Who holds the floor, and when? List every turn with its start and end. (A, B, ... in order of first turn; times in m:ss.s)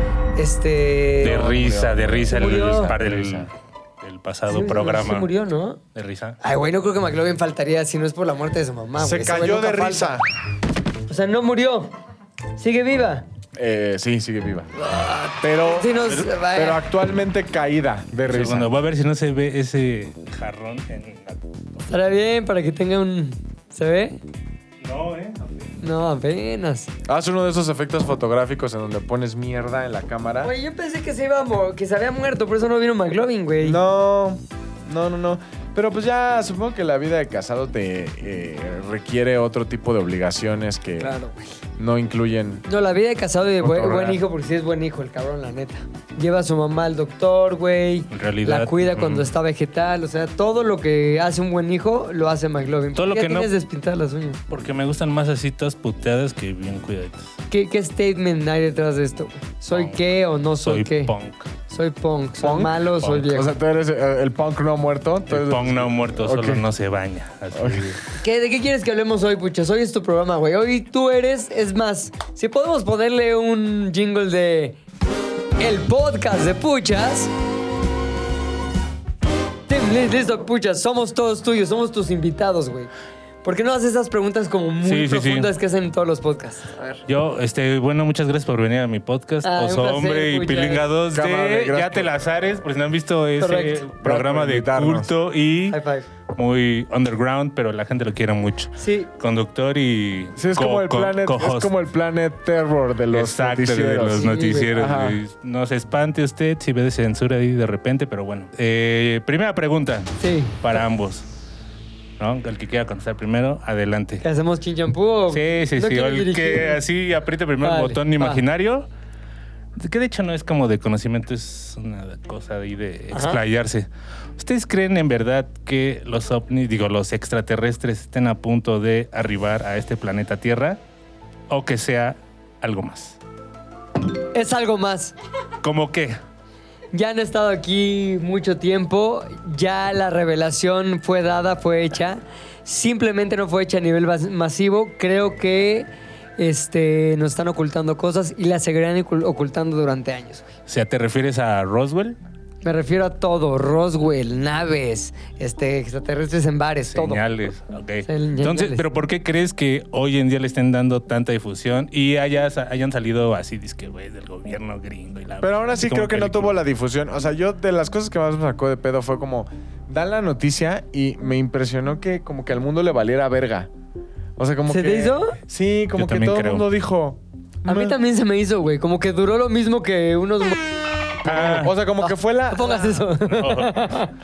0:00.4-0:01.5 A
0:01.2-0:05.3 B
0:01.2-0:03.4 C
0:02.3-0:02.9 A
0:04.5-0:05.8 A
0:06.0-0:06.4 B
0:06.4-0:10.2 A
0:09.0-0:10.2 C
0:11.1-0:11.9 A
0:12.6-0:13.3 A
0:13.6-0:14.7 C
0:14.8-0:16.8 A
0:15.4-0:18.7 C
0:18.3-0:21.4 B
0:21.9-0:24.2 A
0:24.8-0:25.8 B
0:25.8-0:26.9 A
0:27.1-0:30.5 C
0:30.4-0:33.8 A
0:33.6-0:41.2 C
0:41.0-0:41.4 A
0:41.8-0:42.7 C
0:42.7-0:54.4 A
0:43.6-0:44.2 C
0:48.1-0:49.3 B
0:53.0-0:53.5 B
0:54.5-0:57.3 B
0:57.5-1:01.1 A
0:59.7-1:00.0 B
1:00.6-1:01.5 B
1:01.7-1:03.5 A
1:02.4-1:06.6 C
1:03.0-1:03.3 B
1:05.3-1:08.0 B
1:07.6-1:08.0 C
1:08.2-1:14.8 A
1:15.6-1:17.3 A
1:19.7-1:22.9 A
1:23.4-1:27.0 A
1:24.8-1:25.5 B
1:27.1-1:35.8 B
1:29.4-1:30.9 A
1:31.1-1:32.1 C
1:33.4-1:33.8 A
1:34.0-1:35.1 C
1:35.7-1:36.1 A
1:36.4-1:41.7 B
1:38.8-1:39.1 A
1:40.4-1:45.2 C
1:43.1-1:51.3 B
1:44.2-1:44.7 A
1:50.2-1:50.8 A
1:52.2-1:54.2 B
1:54.2-1:56.8 A
1:55.3-1:58.9 B
1:57.6-1:58.4 A
1:59.8-2:10.8 B
2:03.1-2:03.4 A
2:11.5-2:13.2 B
2:14.3-2:15.1 A
2:15.6-2:16.2 B
2:16.9-2:30.5 A
2:30.7-2:32.2 B
2:32.6-2:37.2 A
2:36.9-2:46.6 B
2:38.0-2:38.8 A
2:45.4-2:53.7 C
2:54.4-2:58.0 C
2:54.7-2:55.4 A
2:56.0-2:56.7 B
2:57.6-3:00.8 A
3:01.2-3:01.8 B
3:01.2-3:03.1 C
3:02.0-3:04.1 A
3:03.3-3:03.9 B